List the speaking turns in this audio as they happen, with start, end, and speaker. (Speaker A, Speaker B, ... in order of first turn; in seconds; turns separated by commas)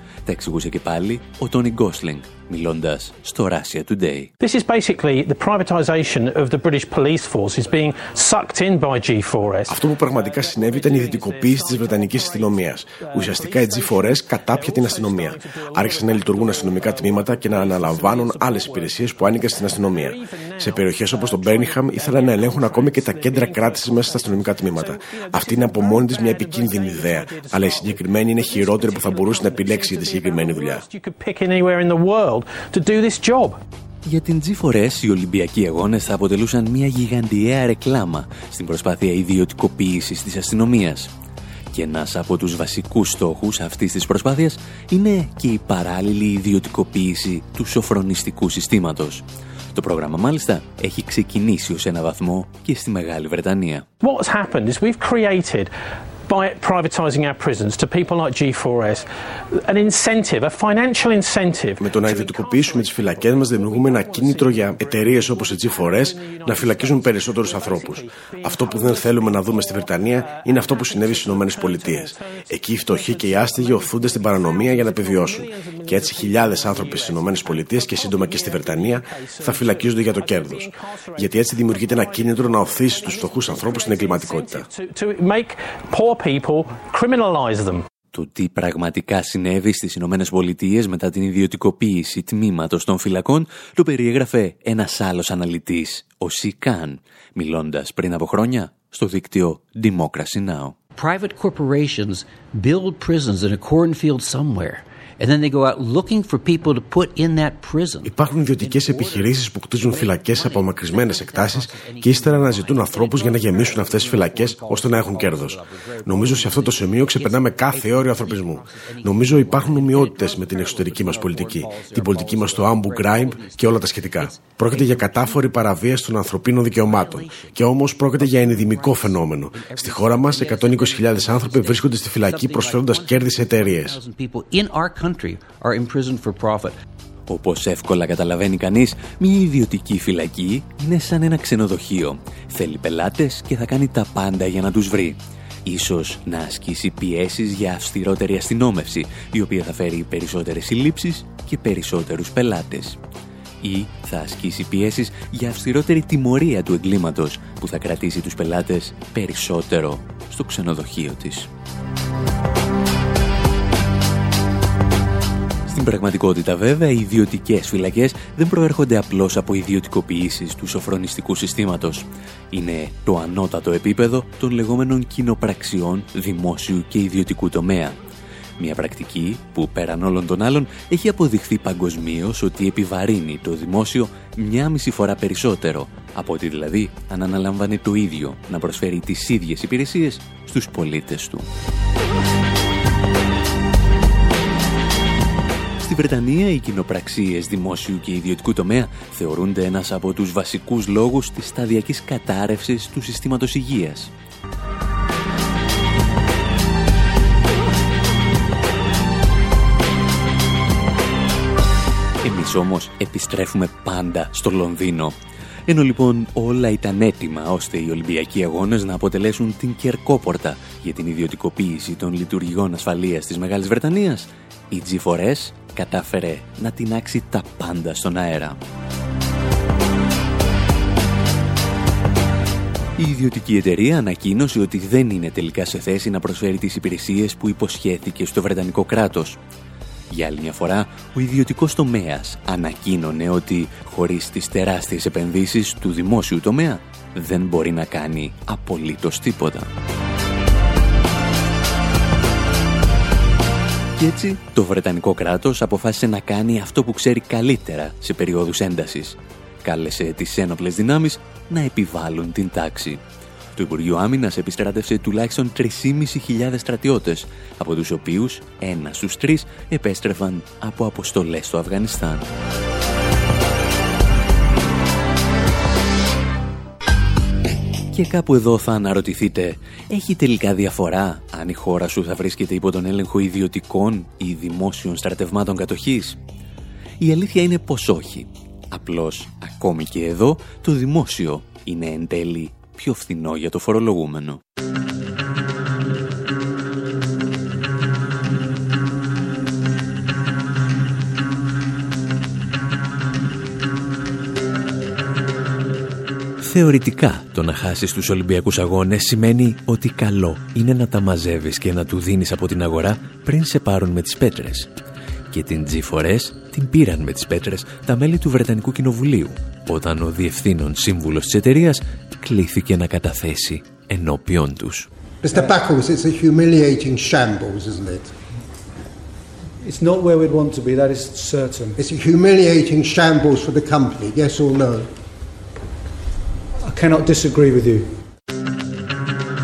Speaker A: 0.2-4.3, Speaker B: 4.4-33.6, Speaker C: 9.7-30.8, Speaker A: 34.0-41.1, Speaker A: 41.7-49.2, Speaker A: 49.7-53.9, Speaker B: 54.0-55.7, Speaker B: 56.3-87.8, Speaker C: 61.8-84.7, Speaker A: 88.1-100.8, Speaker D: 100.9-125.7, Speaker C: 108.0-133.9, Speaker D: 126.8-136.8, Speaker A: 137.3-153.0, Speaker A: 153.6-161.5, Speaker A: 165.7-178.0, Speaker A: 178.6-191.4, Speaker A: 195.8-204.1, Speaker A: 212.2-215.1, Speaker A: 215.7-228.6, Speaker A: 233.0-239.4, Speaker A: 240.1-249.7, Speaker A: 254.0-263.0, Speaker A: 263.5-272.3, Speaker A: 277.9-286.2, Speaker A: 287.0-294.4, Speaker A: 306.4-314.7, Speaker A: 315.3-324.9, Speaker E: 325.2-328.1, Speaker F: 329.6-331.8, Speaker E: 331.8-334.9, Speaker F: 336.6-337.9